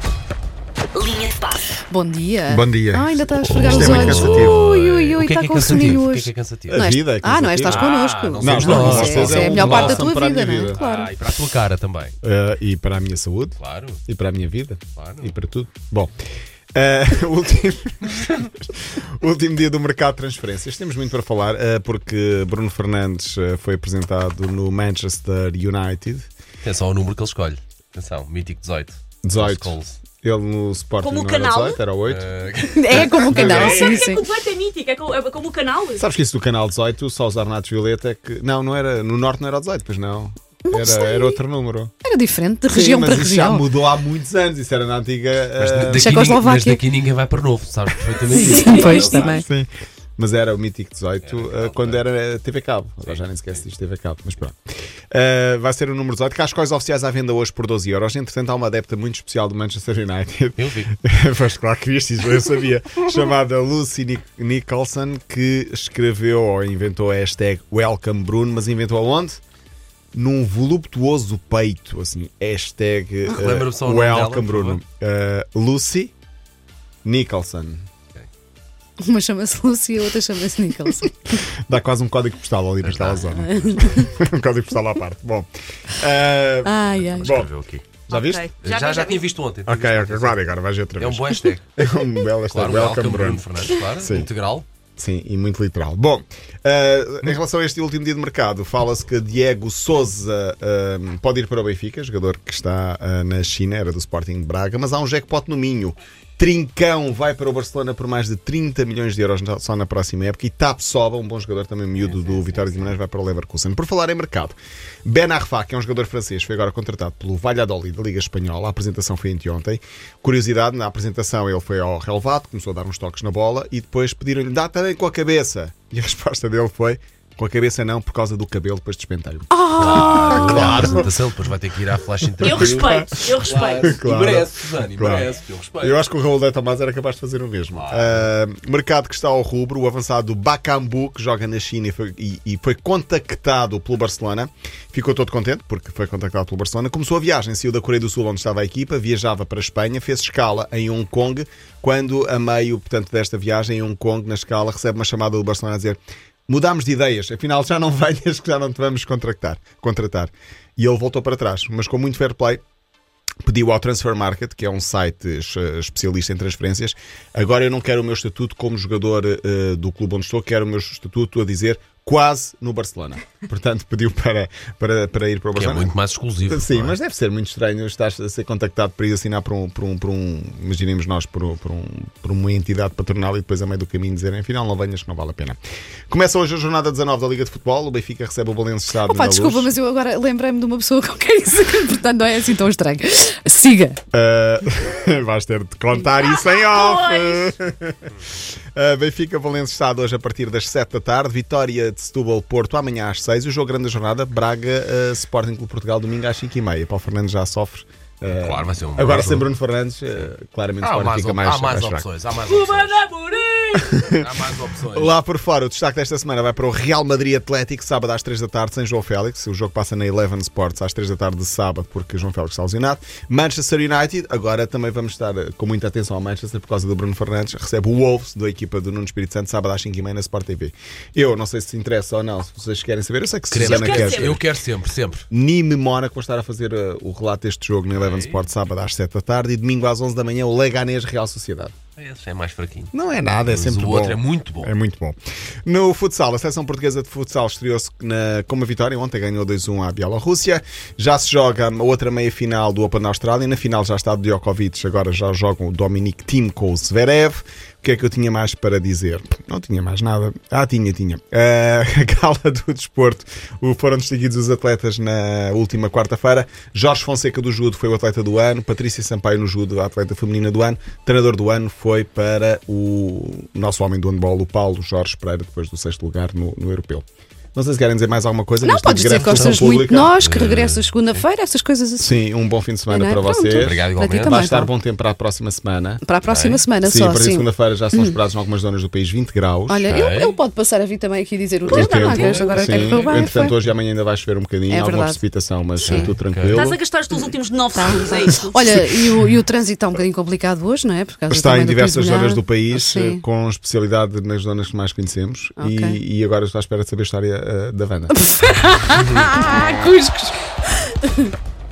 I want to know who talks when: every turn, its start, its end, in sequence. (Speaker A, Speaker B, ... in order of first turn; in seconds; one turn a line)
Speaker A: 1.9-11.1
Speaker B: 2.5-4.6
Speaker C: 3.5-6.9
Speaker B: 6.7-10.8
Speaker C: 7.7-10.1
Speaker C: 10.8-12.1
Speaker B: 12.2-16.2
Speaker C: 13.6-14.0
Speaker C: 15.0-15.3
Speaker B: 16.7-26.3
Speaker C: 26.6-30.0
Speaker B: 29.2-32.3
Speaker D: 31.0-31.8
Speaker C: 32.1-34.1
Speaker A: 32.8-34.2
Speaker B: 32.9-33.9
Speaker D: 33.4-36.0
Speaker B: 36.0-41.9
Speaker A: 40.7-41.4
Speaker A: 42.0-43.7
Speaker B: 42.7-46.2
Speaker C: 45.5-49.4
Speaker A: 45.9-46.8
Speaker A: 48.3-49.5
Speaker B: 49.0-54.6
Speaker C: 51.2-52.0
Speaker C: 53.0-53.6
Speaker B: 55.1-69.4
Speaker C: 60.6-61.0
Speaker B: 70.1-76.1
Speaker C: 73.3-74.8
Speaker B: 77.0-77.9
Speaker A: 79.0-81.2
Speaker B: 81.7-88.5
Speaker C: 82.8-83.7
Speaker A: 83.5-84.1
Speaker A: 86.7-87.5
Speaker C: 87.0-87.8
Speaker D: 88.1-89.2
Speaker C: 88.6-90.4
Speaker B: 89.7-94.3
Speaker C: 91.0-91.7
Speaker C: 92.5-94.7
Speaker B: 95.0-131.1
Speaker C: 112.0-112.8
Speaker A: 129.5-131.0
Speaker C: 129.8-136.0
Speaker D: 132.4-134.0
Speaker B: 132.4-162.6
Speaker C: 137.7-138.3
Speaker B: 163.4-175.9
Speaker C: 175.6-177.0
Speaker B: 176.4-185.6
Speaker B: 186.1-189.7
Speaker A: 189.0-194.0
Speaker B: 194.1-212.1
Speaker D: 196.2-197.5
Speaker C: 208.3-209.5
Speaker C: 210.8-215.1
Speaker D: 212.5-213.0
Speaker B: 213.7-214.3
Speaker B: 214.9-234.4
Speaker C: 233.5-235.3
Speaker D: 233.6-234.4
Speaker B: 235.3-241.7
Speaker C: 237.9-238.4
Speaker C: 242.0-242.9
Speaker B: 242.9-277.0
Speaker C: 243.5-244.7
Speaker B: 277.6-280.2
Speaker A: 278.6-282.1
Speaker C: 279.1-281.2
Speaker B: 282.0-286.0
Speaker A: 282.9-284.7
Speaker C: 283.6-284.4
Speaker A: 286.0-288.2
Speaker C: 286.2-286.7
Speaker B: 286.8-289.9
Speaker A: 289.7-293.6
Speaker C: 289.9-290.4
Speaker C: 291.7-293.5
Speaker B: 291.7-296.8
Speaker A: 294.7-295.2
Speaker A: 295.8-296.1
Speaker C: 295.8-296.7
Speaker D: 296.5-298.6
Speaker A: 297.8-303.2
Speaker B: 301.3-308.1
Speaker A: 305.6-306.0
Speaker A: 308.1-311.3